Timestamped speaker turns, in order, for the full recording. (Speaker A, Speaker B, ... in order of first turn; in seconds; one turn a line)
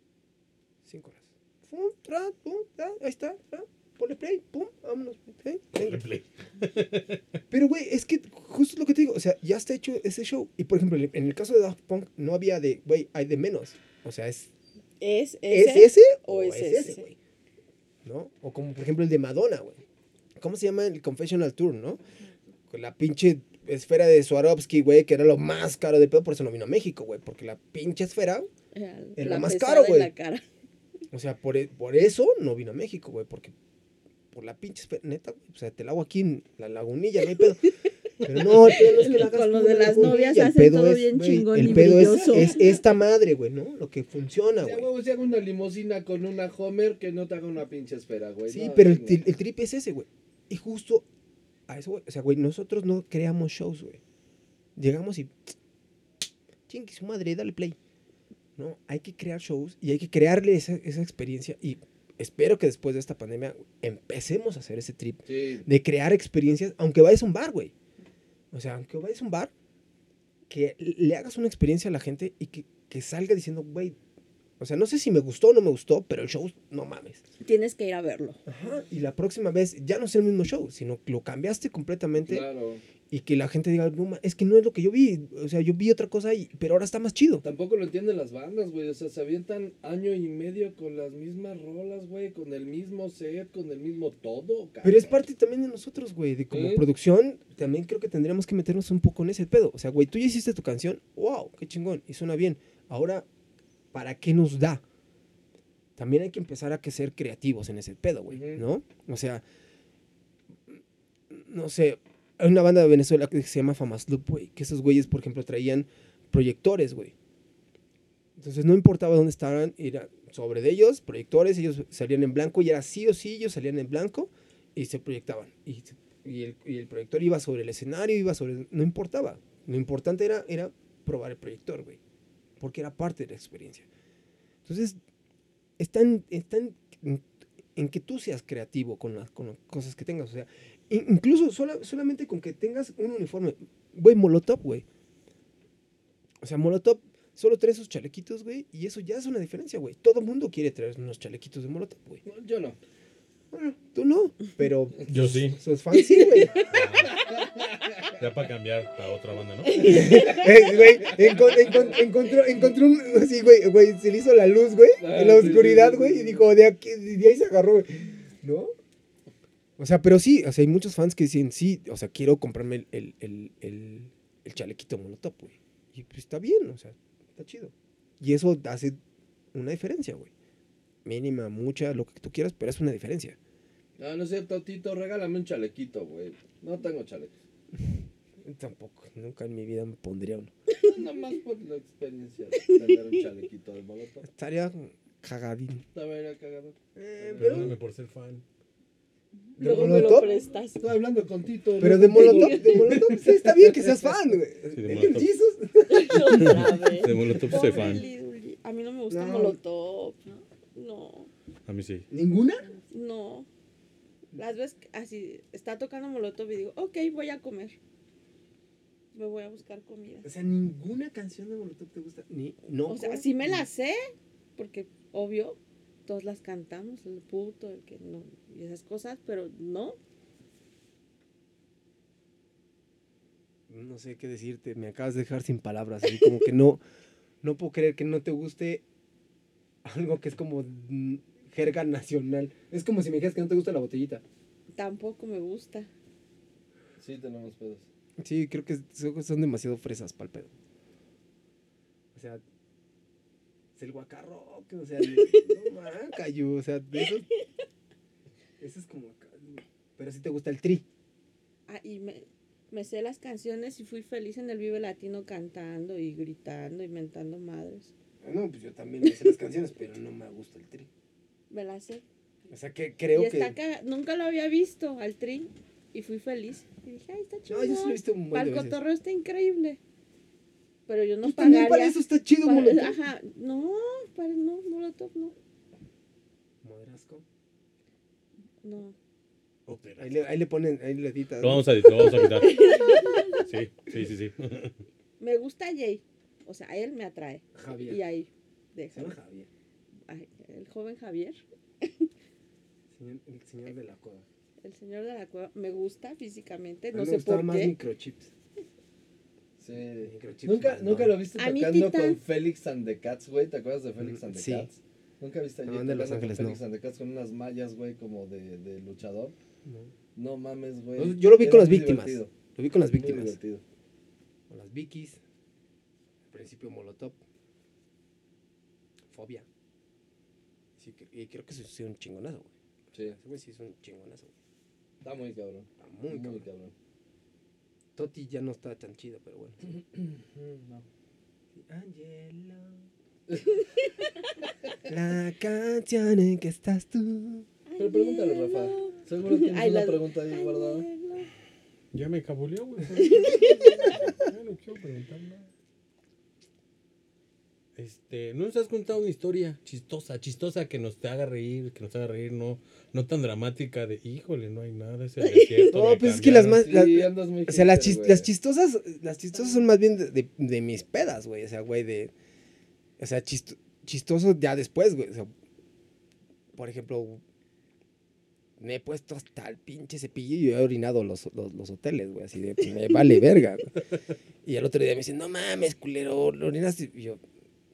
Speaker A: 0.8-6.0
Speaker B: 5.8-7.2
Speaker A: 7.5-14.5
Speaker C: 15.0-17.1
Speaker A: 15.5-17.2
Speaker A: 18.0-19.8
Speaker A: 20.4-22.0
Speaker A: 22.7-28.5
Speaker C: 28.7-30.4
Speaker A: 29.2-30.1
Speaker A: 31.1-33.5
Speaker A: 34.3-37.6
Speaker A: 38.2-44.9
Speaker C: 38.4-42.7
Speaker D: 41.9-42.5
Speaker D: 44.6-49.2
Speaker A: 48.5-51.1
Speaker A: 51.7-54.0
Speaker A: 54.8-55.5
Speaker A: 56.7-57.8
Speaker A: 58.6-67.7
Speaker D: 65.3-65.7
Speaker A: 68.5-69.5
Speaker A: 70.5-74.0
Speaker A: 74.6-77.2
Speaker C: 77.4-78.4
Speaker A: 78.5-82.5
Speaker D: 82.2-82.8
Speaker A: 83.1-87.4
Speaker D: 87.4-95.2
Speaker A: 94.8-103.3
Speaker D: 96.5-96.8
Speaker A: 103.9-104.8
Speaker A: 106.0-109.4
Speaker D: 108.3-108.6
Speaker A: 111.3-117.1
Speaker A: 118.4-132.0
Speaker A: 132.6-133.9
Speaker A: 134.7-135.0
Speaker A: 135.8-137.2
Speaker A: 137.8-144.8
Speaker A: 146.4-152.2
Speaker D: 152.2-152.8
Speaker A: 153.5-156.7
Speaker B: 155.1-155.6
Speaker B: 156.7-157.2
Speaker D: 157.1-158.1
Speaker B: 158.2-160.1
Speaker C: 159.7-160.5
Speaker A: 159.7-168.7
Speaker D: 165.0-166.5
Speaker A: 169.8-179.0
Speaker A: 179.5-180.3
Speaker A: 181.1-183.4
Speaker D: 184.0-187.3
Speaker A: 187.8-190.5
Speaker D: 190.8-194.2
Speaker C: 192.6-192.9
Speaker A: 194.2-195.8
Speaker D: 195.9-197.7
Speaker A: 197.0-197.8
Speaker B: 197.4-198.4
Speaker C: 199.6-200.8
Speaker A: 199.6-200.4
Speaker D: 199.6-204.0
Speaker A: 201.8-208.0
Speaker C: 202.2-202.8
Speaker B: 204.7-205.3
Speaker C: 205.9-211.3
Speaker B: 206.2-208.1
Speaker A: 209.1-209.6
Speaker B: 211.7-212.1
Speaker A: 212.1-212.7
Speaker C: 212.8-213.5
Speaker C: 214.3-217.8
Speaker C: 219.1-220.3
Speaker A: 220.2-223.7
Speaker C: 222.9-224.0
Speaker C: 224.6-230.0
Speaker A: 233.7-236.8
Speaker A: 237.4-238.8
Speaker A: 239.8-244.2
Speaker C: 244.8-245.9
Speaker D: 247.0-247.8
Speaker A: 248.2-250.5
Speaker A: 252.1-252.4
Speaker A: 253.8-257.3
Speaker C: 255.2-255.6
Speaker A: 258.6-260.9
Speaker C: 261.7-267.9
Speaker A: 268.2-270.9
Speaker C: 271.5-272.0
Speaker A: 272.5-273.6
Speaker C: 273.1-279.8
Speaker A: 277.5-278.8
Speaker C: 280.9-285.4
Speaker A: 281.2-283.0
Speaker A: 286.6-287.2
Speaker C: 288.6-288.9
Speaker B: 289.7-290.1
Speaker A: 290.0-292.1
Speaker B: 291.4-294.8
Speaker C: 292.0-293.5
Speaker C: 295.2-299.2
Speaker A: 297.5-298.0
Speaker A: 298.9-299.5
Speaker C: 300.1-302.1
Speaker A: 302.9-304.2
Speaker C: 304.6-307.8
Speaker A: 306.9-308.3
Speaker D: 309.6-319.4
Speaker A: 310.0-311.2
Speaker C: 311.4-312.2
Speaker A: 314.0-314.7
Speaker A: 315.6-316.6
Speaker A: 319.6-319.9
Speaker D: 320.1-322.3
Speaker A: 321.0-323.4
Speaker D: 322.9-323.6
Speaker A: 324.5-325.2
Speaker A: 326.3-327.2
Speaker A: 329.1-329.5
Speaker A: 330.8-332.5
Speaker D: 332.9-333.2
Speaker A: 333.1-334.3
Speaker D: 335.0-336.7
Speaker A: 335.8-336.4
Speaker A: 337.9-339.6
Speaker D: 339.6-340.9
Speaker A: 341.6-342.9
Speaker A: 344.9-347.5
Speaker C: 347.7-351.3
Speaker D: 347.8-350.9
Speaker B: 351.9-355.5
Speaker C: 353.0-353.9
Speaker B: 357.8-366.6
Speaker C: 365.2-365.8
Speaker A: 365.7-372.1
Speaker D: 366.6-368.3
Speaker A: 373.0-375.3
Speaker A: 376.5-377.2
Speaker A: 378.6-383.7
Speaker A: 384.4-387.2